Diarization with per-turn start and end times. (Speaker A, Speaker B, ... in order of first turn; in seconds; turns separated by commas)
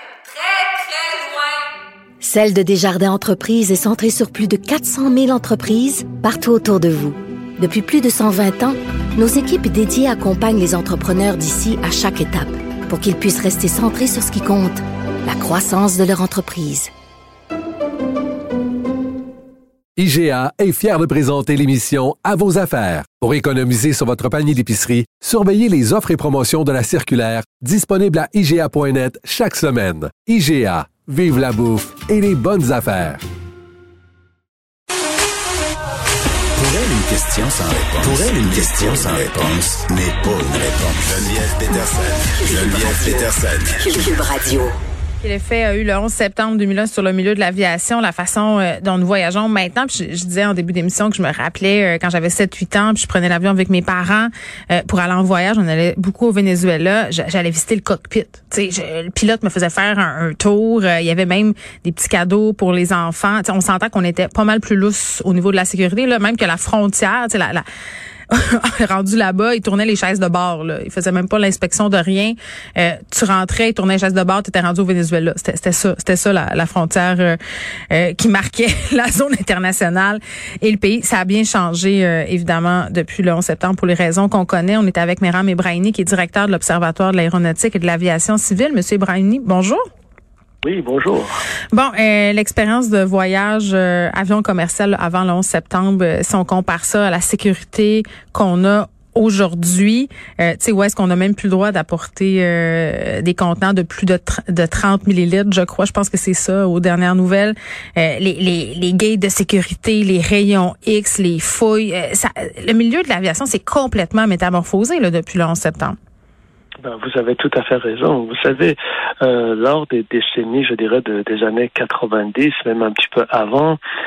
Speaker A: 2.2-16.9, Speaker B: 19.9-33.2, Speaker C: 36.5-44.1, Speaker B: 38.0-39.4, Speaker A: 42.4-43.3, Speaker A: 43.8-44.8, Speaker D: 45.2-67.6, Speaker D: 68.3-77.4, Speaker D: 77.9-89.8, Speaker E: 90.6-91.3, Speaker D: 91.7-116.0, Speaker E: 116.8-123.8